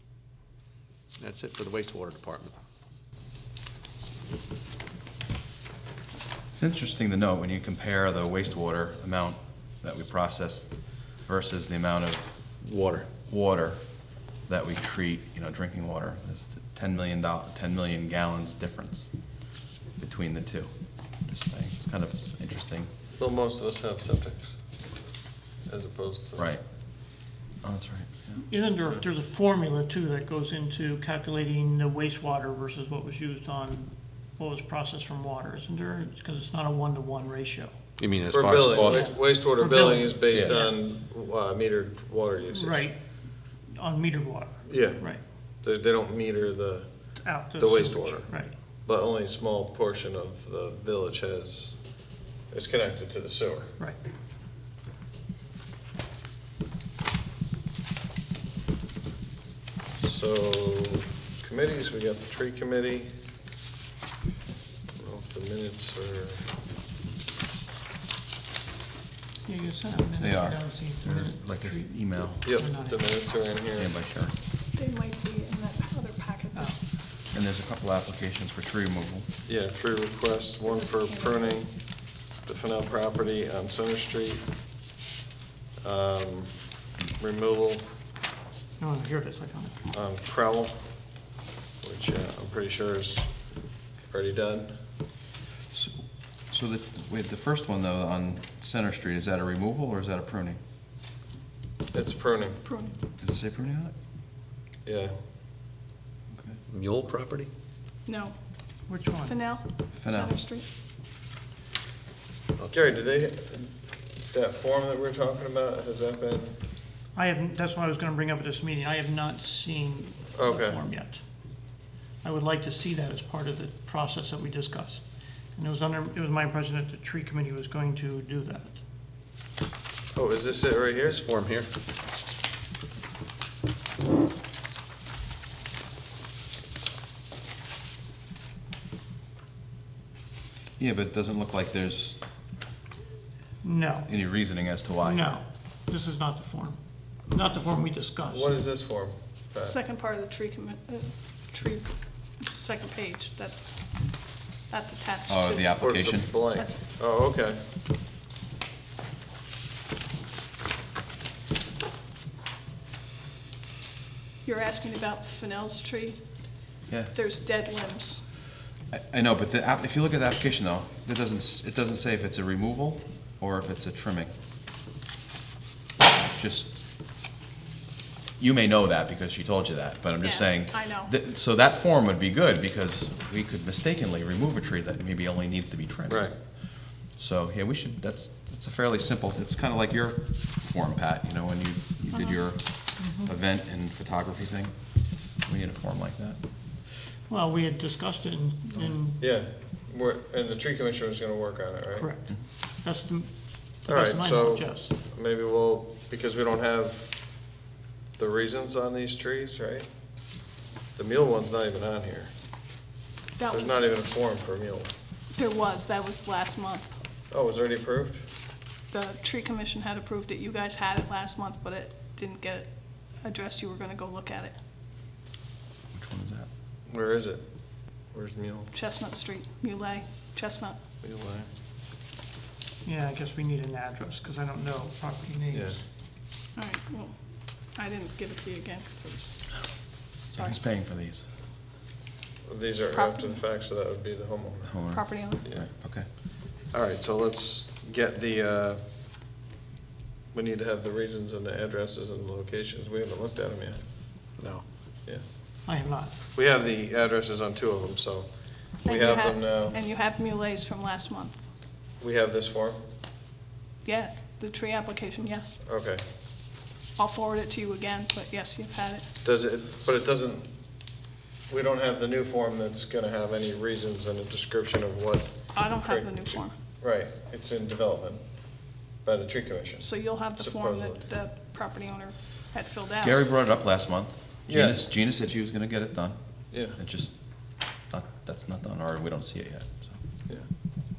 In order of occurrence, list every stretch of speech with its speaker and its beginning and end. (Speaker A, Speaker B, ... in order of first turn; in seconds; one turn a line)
Speaker A: 1.2-2.5
Speaker B: 6.5-10.7
Speaker B: 11.2-12.4
Speaker A: 12.6-13.1
Speaker B: 13.3-13.8
Speaker B: 14.4-19.1
Speaker B: 20.0-20.7
Speaker B: 21.2-22.9
Speaker C: 23.2-24.6
Speaker C: 25.7-26.5
Speaker B: 26.4-26.6
Speaker B: 27.6-28.4
Speaker D: 28.4-37.8
Speaker A: 38.0-39.1
Speaker C: 38.3-42.9
Speaker D: 38.8-40.7
Speaker B: 40.3-40.6
Speaker D: 42.5-43.0
Speaker D: 43.7-45.2
Speaker C: 44.6-45.0
Speaker C: 45.6-46.9
Speaker D: 47.1-48.5
Speaker C: 47.6-48.3
Speaker C: 48.9-51.8
Speaker C: 52.5-53.7
Speaker C: 60.0-63.1
Speaker C: 65.0-66.4
Speaker D: 69.4-73.0
Speaker B: 70.2-72.5
Speaker C: 72.4-73.9
Speaker B: 73.8-74.3
Speaker E: 74.7-76.7
Speaker B: 77.3-79.3
Speaker C: 79.5-81.7
Speaker E: 80.7-81.5
Speaker C: 82.4-84.4
Speaker C: 85.8-86.5
Speaker C: 87.2-87.8
Speaker D: 88.8-89.8
Speaker C: 89.9-90.8
Speaker C: 91.8-93.3
Speaker C: 94.1-94.8
Speaker B: 95.7-100.6
Speaker C: 101.9-102.6
Speaker E: 102.6-102.9
Speaker B: 103.2-103.9
Speaker C: 104.8-105.2
Speaker B: 106.3-106.6
Speaker A: 106.7-107.5
Speaker E: 108.0-108.3
Speaker D: 108.9-109.4
Speaker E: 109.2-110.7
Speaker B: 110.0-110.4
Speaker A: 112.6-112.9
Speaker C: 112.7-113.7
Speaker C: 114.3-116.6
Speaker D: 117.1-121.2
Speaker C: 120.3-120.8
Speaker D: 122.2-125.0
Speaker D: 125.5-128.8
Speaker C: 130.1-131.2
Speaker A: 131.0-131.7
Speaker B: 140.8-142.2
Speaker D: 143.6-144.1
Speaker B: 144.1-145.3
Speaker D: 145.0-148.6
Speaker C: 148.3-149.8
Speaker E: 149.6-156.8
Speaker B: 155.3-156.4
Speaker C: 155.8-157.6
Speaker E: 164.4-166.2
Speaker B: 166.9-167.1
Speaker E: 167.1-168.2
Speaker B: 168.9-174.3
Speaker B: 176.3-176.8
Speaker B: 178.4-196.4
Speaker E: 180.2-181.1
Speaker C: 186.1-186.3
Speaker E: 192.1-192.4
Speaker D: 193.0-193.3
Speaker D: 197.3-199.2
Speaker C: 199.2-202.1
Speaker D: 201.9-203.3
Speaker D: 203.8-204.9
Speaker C: 203.9-207.2
Speaker C: 208.2-209.9
Speaker C: 210.9-212.3
Speaker E: 213.4-213.9
Speaker C: 213.5-214.9
Speaker E: 215.3-216.9
Speaker C: 217.3-218.2
Speaker E: 218.9-224.6
Speaker B: 225.9-226.5
Speaker C: 226.9-227.4
Speaker C: 228.1-228.7
Speaker E: 228.7-230.8
Speaker C: 231.0-231.5
Speaker D: 232.8-235.8
Speaker C: 235.5-235.8
Speaker E: 236.6-239.7
Speaker B: 240.3-241.2
Speaker E: 240.3-240.6
Speaker C: 242.4-244.8
Speaker E: 242.9-243.4
Speaker B: 244.7-246.1
Speaker E: 244.8-245.4
Speaker C: 246.4-248.8
Speaker C: 250.3-253.8
Speaker A: 254.4-254.6
Speaker D: 255.6-256.1
Speaker C: 256.3-259.8
Speaker E: 258.8-261.4
Speaker C: 262.0-262.8
Speaker E: 263.8-265.6
Speaker C: 265.6-266.0
Speaker E: 267.0-269.1
Speaker C: 269.2-270.5
Speaker C: 271.5-278.2
Speaker E: 275.5-276.5
Speaker C: 279.0-281.0
Speaker E: 279.8-283.4
Speaker B: 283.0-287.1
Speaker C: 284.5-284.8
Speaker C: 286.5-286.8
Speaker B: 287.9-290.0